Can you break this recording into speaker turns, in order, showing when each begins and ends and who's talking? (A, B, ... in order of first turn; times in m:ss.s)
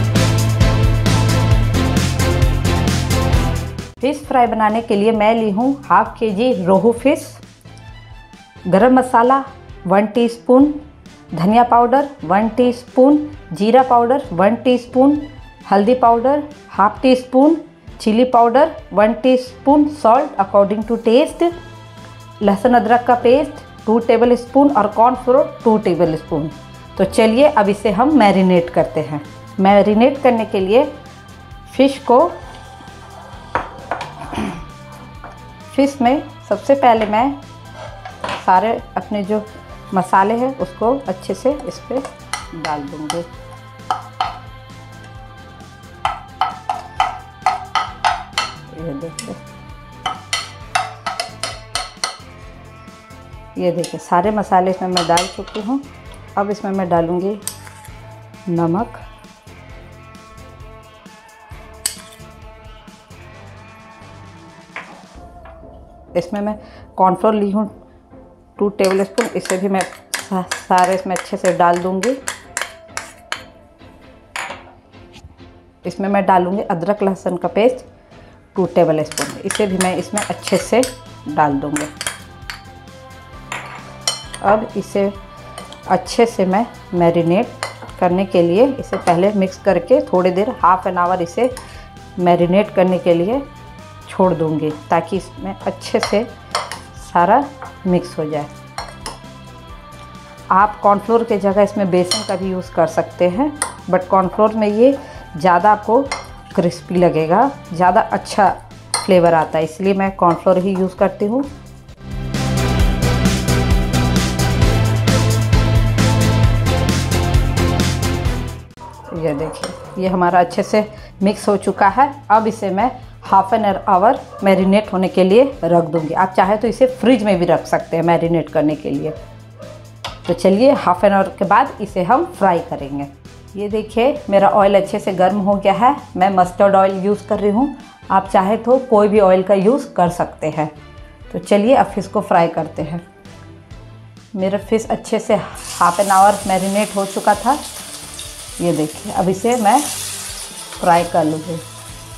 0:04.0-0:07.4 A
0:08.7-0:10.8 A
0:11.3-0:21.5 A
0:22.4-0:30.9 A
0:31.7-0:32.4 A
0:34.3-0:34.6 A
0:35.7-0:37.4 A
0:38.3-0:43.3 A
0:48.7-0:49.4 A
0:53.5-0:57.4 A
0:58.5-0:59.0 A
1:06.1-1:07.7 A
1:08.6-1:12.2 A
1:15.8-1:17.9 A
1:18.5-1:21.9 A
1:24.4-1:25.2 A
1:25.9-1:31.5 A
1:32.2-1:33.4 A
1:34.0-1:36.3 A
1:36.9-1:38.5 A
1:40.5-1:51.5 A
1:59.1-2:09.1 A
2:10.2-2:20.7 A
2:21.3-2:23.0 A
2:24.3-2:27.6 A
2:28.6-2:29.9 A
2:30.8-2:31.6 A